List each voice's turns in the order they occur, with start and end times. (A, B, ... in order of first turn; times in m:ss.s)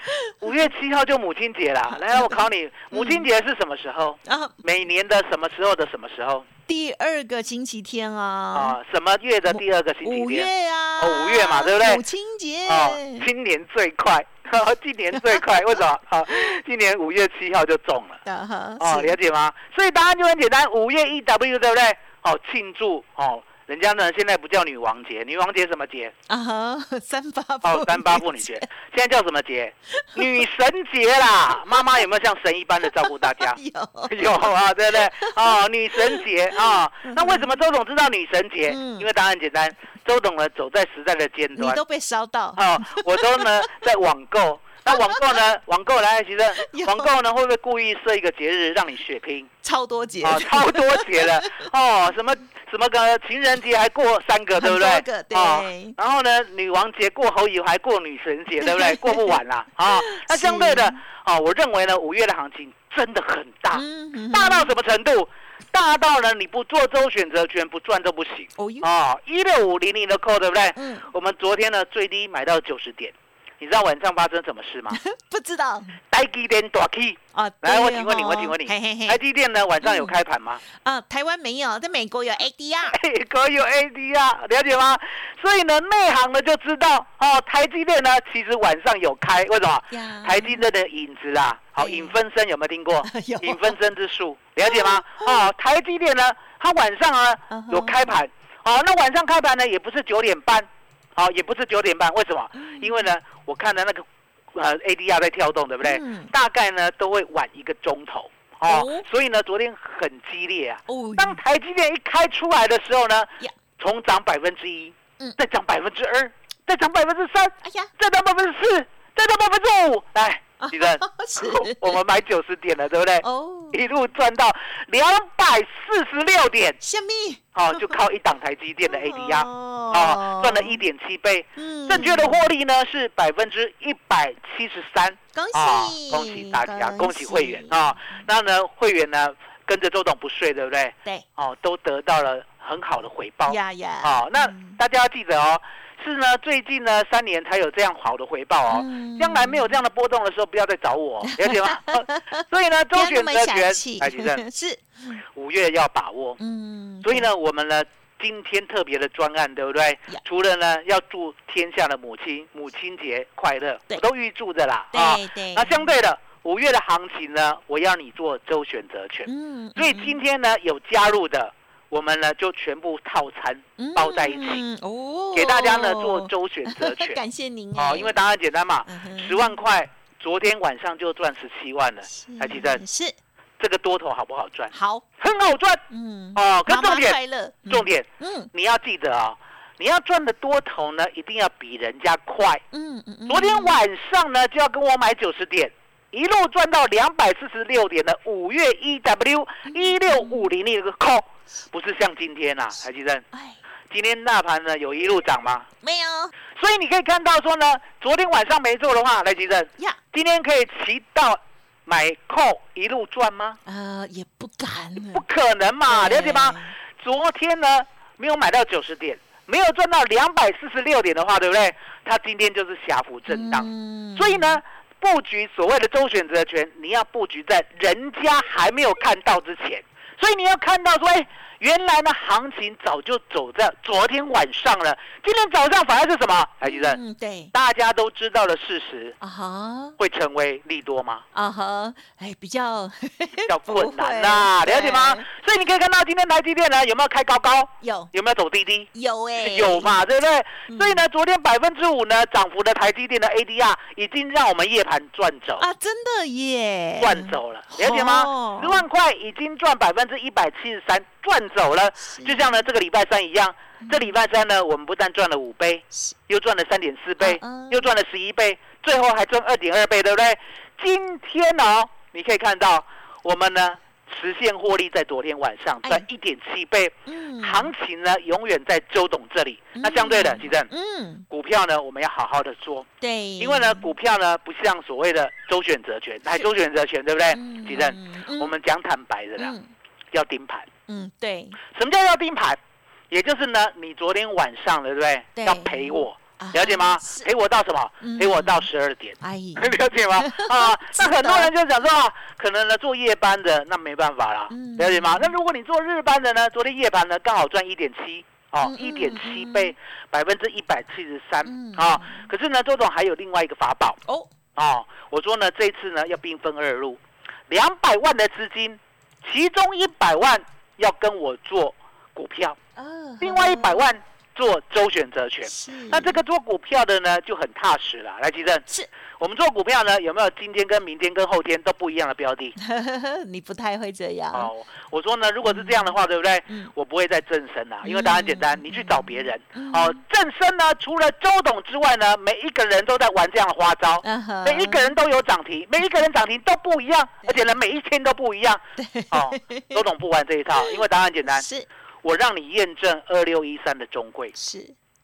0:00.2-0:00.5 A
0:00.4-0:06.5 B
0:01.9-0:03.3 A
0:04.2-0:04.5 A
0:06.7-0:08.8 A
0:08.5-0:12.0 B
0:09.5-0:13.3 A
0:12.7-0:18.2 B
0:15.2-0:15.4 A
0:18.2-0:19.2 A
0:18.8-0:26.1 B
0:26.3-0:28.6 A
0:27.6-0:33.6 B
0:30.0-0:30.4 A
0:33.4-0:37.5 A
0:34.1-0:41.8 B
0:38.7-0:39.1 A
0:41.6-0:43.5 A
0:42.6-0:49.5 B
0:46.6-0:47.1 A
0:49.6-0:51.6 A
0:50.2-1:15.0 B
0:54.6-0:56.0 A
0:58.6-0:59.4 A
0:59.9-1:01.0 A
1:03.7-1:04.7 A
1:08.6-1:08.9 A
1:10.8-1:11.1 A
1:14.9-1:16.0 A
1:16.1-1:20.6 B
1:17.3-1:19.2 A
1:19.8-1:20.2 A
1:20.7-1:23.0 A
1:22.9-2:06.8 B
1:29.9-1:30.6 A
1:31.8-1:32.2 A
1:33.0-1:33.8 A
1:34.6-1:35.5 A
1:37.5-1:38.1 A
1:42.6-1:43.0 A
1:45.8-1:46.3 A
1:48.6-1:49.1 A
1:50.9-1:51.4 A
1:57.6-1:57.9 A
2:00.6-2:02.0 A
2:03.2-2:03.8 A
2:06.8-2:07.9 A
2:07.6-2:34.4 B
2:08.9-2:10.8 A
2:11.6-2:12.5 A
2:15.3-2:18.2 A
2:23.5-2:24.8 A
2:28.7-2:29.8 A
2:31.3-2:32.4 A
2:32.9-2:35.2 A
2:35.4-2:36.4 B
2:36.4-2:37.3 A
2:37.0-2:54.6 B
2:44.9-2:45.9 A
2:49.3-2:50.2 A
2:53.8-2:58.2 A
2:55.3-2:57.2 B
2:57.8-3:02.8 B
2:58.9-2:59.6 A
3:02.1-3:03.2 A
3:03.6-3:05.8 B
3:04.7-3:05.0 A
3:05.9-3:08.5 A
3:06.4-3:07.2 B
3:07.7-3:12.6 B
3:12.7-3:13.8 A
3:13.3-3:23.2 B
3:19.7-3:20.5 A
3:23.3-3:23.6 A
3:23.9-3:25.7 B
3:25.8-3:26.3 A
3:26.6-3:33.6 B
3:33.7-3:35.2 A
3:35.1-3:57.0 B
3:35.9-3:36.7 A
3:43.3-3:44.6 A
3:56.6-3:57.5 A
3:57.5-3:59.2 B
3:59.2-4:00.0 A
4:00.0-4:01.2 B
4:01.3-4:05.3 A
4:03.5-4:15.7 B
4:07.8-4:08.1 A
4:09.0-4:10.0 A
4:10.7-4:11.0 A
4:15.6-4:18.9 A
4:17.0-4:40.7 B
4:22.1-4:22.6 A
4:23.8-4:24.2 A
4:27.2-4:27.9 A
4:37.1-4:37.7 A
4:39.8-4:41.2 A
4:41.3-4:42.9 B
4:43.0-4:43.9 A
4:43.4-4:49.6 B
4:47.3-4:48.5 A
4:49.4-4:49.7 A
4:50.1-4:50.7 B
4:50.9-4:51.6 A
4:51.7-4:52.6 B
4:53.1-5:14.0 B
4:55.4-4:57.3 A
4:58.0-4:58.7 A
4:59.2-5:01.5 A
5:04.5-5:05.4 A
5:08.6-5:09.7 A
5:11.4-5:12.3 A
5:14.6-5:22.6 B
5:22.8-5:23.9 A
5:23.2-5:28.6 B
5:25.5-5:26.2 A
5:29.2-5:32.6 B
5:32.6-5:34.5 A
5:34.3-5:51.5 B
5:35.4-5:36.0 A
5:37.8-5:40.0 A
5:44.0-5:44.9 A
5:48.8-5:49.8 A
5:50.5-5:51.7 A
5:52.0-5:54.3 B
5:54.4-5:54.8 A